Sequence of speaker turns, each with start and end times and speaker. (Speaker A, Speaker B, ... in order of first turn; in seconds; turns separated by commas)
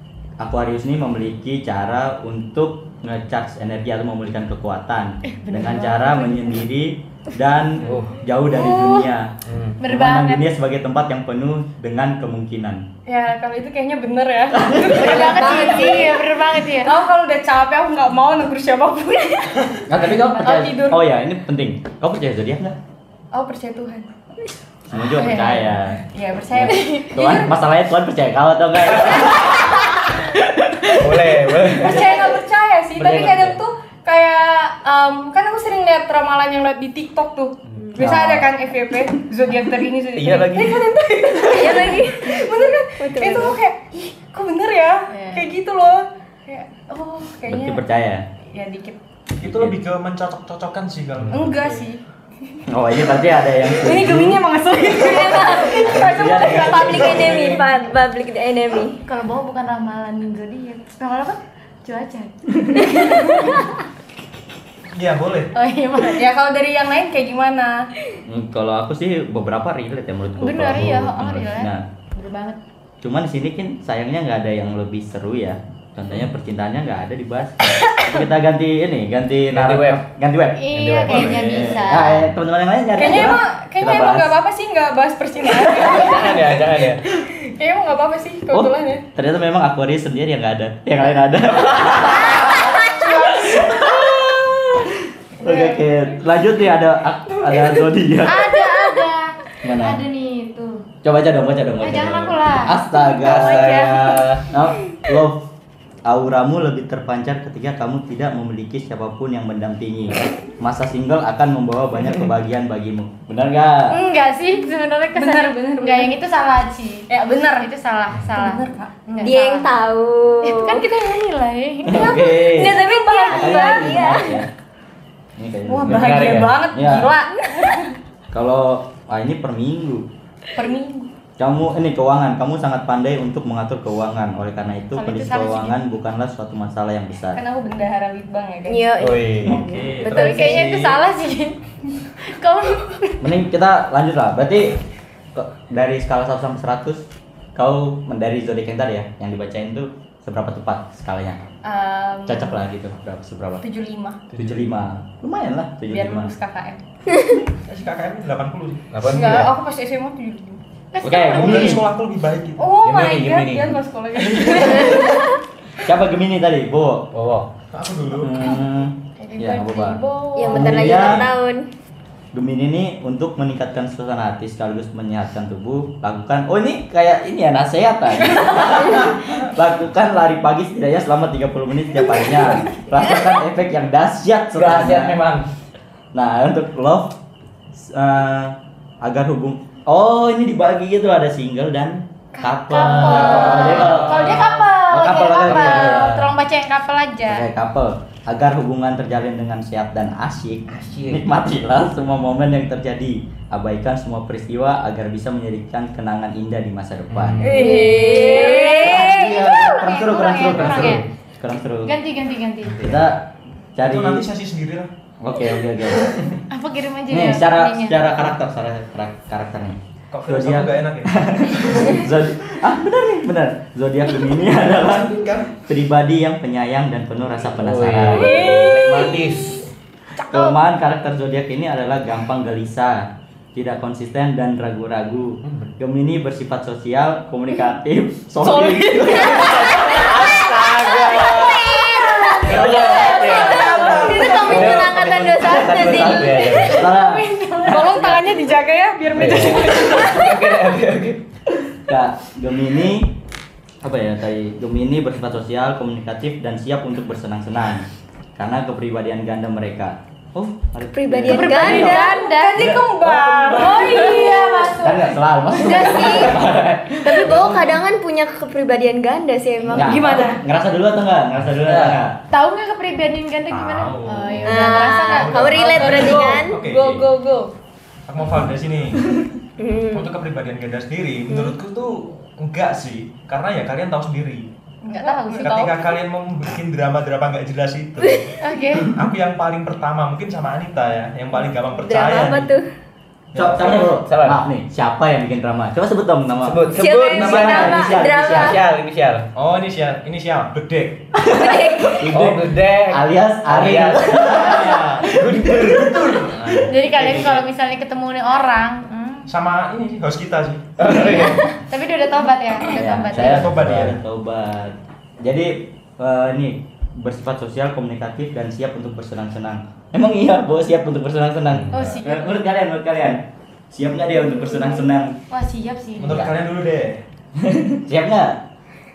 Speaker A: 0.4-12.9, Speaker B: 5.5-6.4, Speaker C: 7.8-8.2, Speaker B: 8.7-8.9, Speaker C: 9.4-9.8, Speaker B: 9.8-10.5, Speaker D: 13.1-16.1, Speaker A: 14.6-15.2, Speaker B: 14.9-16.9, Speaker E: 15.1-16.2, Speaker D: 16.8-21.1, Speaker A: 19.9-22.8, Speaker D: 23.3-24.1, Speaker A: 24.9-26.0, Speaker D: 25.2-27.5, Speaker A: 26.5-31.7, Speaker C: 30.9-32.2, Speaker D: 31.8-47.8, Speaker C: 33.0-33.6, Speaker A: 33.0-33.4, Speaker C: 37.7-38.0, Speaker A: 38.0-38.5, Speaker C: 40.1-41.9, Speaker E: 41.4-43.6, Speaker B: 45.1-45.4, Speaker A: 47.5-48.3, Speaker D: 48.5-49.0, Speaker F: 49.4-51.8, Speaker A: 49.4-49.7, Speaker C: 51.2-51.6, Speaker D: 51.3-52.0, Speaker A: 52.7-54.4, Speaker D: 53.7-57.6, Speaker E: 55.0-59.0, Speaker A: 55.2-57.6, Speaker B: 59.0-63.6, Speaker F: 64.9-65.5, Speaker B: 65.5-66.3, Speaker D: 66.0-67.9, Speaker A: 68.2-71.8, Speaker B: 70.4-72.6, Speaker A: 73.0-84.4, Speaker C: 79.5-80.0, Speaker B: 80.6-82.2, Speaker C: 81.0-81.7, Speaker D: 83.0-86.5, Speaker A: 85.6-86.2, Speaker C: 85.7-87.0, Speaker D: 87.3-89.0, Speaker A: 88.5-98.6, Speaker B: 92.4-93.4, Speaker B: 98.2-100.8, Speaker A: 99.6-100.0, Speaker A: 101.0-105.5, Speaker B: 101.8-104.4, Speaker A: 106.0-114.0, Speaker B: 113.9-119.7, Speaker D: 115.2-116.2, Speaker D: 117.1-117.7, Speaker D: 118.3-119.3, Speaker E: 119.2-120.9, Speaker B: 120.5-123.6, Speaker D: 120.7-123.5, Speaker A: 121.8-124.5, Speaker E: 122.0-124.4, Speaker A: 125.4-127.1, Speaker D: 125.7-128.0, Speaker C: 125.8-126.6, Speaker A: 128.3-130.1, Speaker D: 130.5-131.1, Speaker A: 131.4-137.4, Speaker B: 135.0-135.8, Speaker D: 137.3-138.9, Speaker E: 138.7-140.6, Speaker C: 139.0-139.6, Speaker F: 139.4-141.0, Speaker B: 140.1-141.6, Speaker B: 142.2-143.2, Speaker A: 143.2-144.8, Speaker A: 145.3-151.4, Speaker D: 151.6-152.6, Speaker A: 152.3-153.7, Speaker D: 153.6-154.2, Speaker C: 154.3-154.6, Speaker A: 154.4-156.3, Speaker D: 155.9-156.8, Speaker F: 157.6-159.0, Speaker C: 158.9-159.5, Speaker D: 159.1-160.6, Speaker B: 160.9-161.8, Speaker A: 161.0-161.9, Speaker F: 161.2-162.7, Speaker D: 162.6-165.3, Speaker C: 162.8-163.8, Speaker A: 165.8-167.1, Speaker C: 167.1-167.5, Speaker F: 167.7-168.6, Speaker A: 168.2-171.3, Speaker D: 169.2-171.1, Speaker E: 170.3-171.7, Speaker A: 172.3-185.2, Speaker C: 184.6-185.5, Speaker A: 186.1-187.2, Speaker A: 187.7-196.3, Speaker B: 192.4-197.5, Speaker C: 192.9-194.7, Speaker C: 195.4-196.3, Speaker A: 197.3-207.5, Speaker C: 200.7-201.3, Speaker C: 207.1-207.7, Speaker D: 207.4-209.3, Speaker E: 207.5-209.2, Speaker B: 207.5-211.1, Speaker A: 208.8-211.9, Speaker C: 210.5-211.1, Speaker B: 211.8-212.9, Speaker A: 212.8-214.3, Speaker F: 213.8-214.9, Speaker A: 215.2-216.3, Speaker B: 216.5-218.1, Speaker A: 217.1-228.6, Speaker F: 220.1-221.2, Speaker F: 224.7-225.6, Speaker C: 227.6-229.7, Speaker D: 228.1-229.6, Speaker A: 230.3-240.1, Speaker C: 235.4-235.7, Speaker C: 238.5-241.7, Speaker E: 241.2-246.7, Speaker C: 242.4-246.8, Speaker A: 242.4-243.8, Speaker B: 242.9-244.2, Speaker F: 243.7-244.7, Speaker A: 245.4-248.2, Speaker B: 246.8-247.8, Speaker D: 247.6-250.3, Speaker C: 249.1-251.2, Speaker A: 251.7-253.2, Speaker A: 253.8-263.8, Speaker E: 260.9-262.2, Speaker B: 261.3-262.8, Speaker D: 261.4-264.8, Speaker B: 263.6-265.1, Speaker E: 263.8-264.7, Speaker A: 264.8-267.4, Speaker E: 265.6-266.4, Speaker B: 265.6-266.4, Speaker E: 267.0-270.2, Speaker F: 267.3-267.7, Speaker A: 269.7-272.2, Speaker B: 269.8-270.4, Speaker D: 269.9-270.4, Speaker C: 271.5-272.0, Speaker B: 272.3-276.3, Speaker F: 273.5-277.1, Speaker E: 274.4-276.6, Speaker D: 275.8-277.5, Speaker F: 278.1-279.1, Speaker E: 279.6-280.1, Speaker F: 279.9-284.5, Speaker B: 284.9-285.8, Speaker D: 284.9-285.9, Speaker F: 285.4-292.5, Speaker B: 288.4-288.9, Speaker E: 291.8-292.6, Speaker F: 293.3-294.0, Speaker A: 293.4-298.6, Speaker C: 294.0-294.4, Speaker C: 296.4-299.3, Speaker E: 296.7-298.6, Speaker F: 299.4-301.1, Speaker E: 301.3-302.0, Speaker A: 302.0-307.4, Speaker C: 302.1-304.4, Speaker F: 304.4-306.7, Speaker C: 305.1-305.7, Speaker B: 306.7-309.3, Speaker F: 309.3-311.0, Speaker C: 310.8-311.5, Speaker B: 310.9-313.6, Speaker A: 312.7-325.2, Speaker F: 313.1-314.0, Speaker C: 321.5-322.0, Speaker B: 321.7-322.3, Speaker B: 324.3-326.2, Speaker F: 326.0-327.0, Speaker C: 326.0-326.3, Speaker A: 327.4-328.4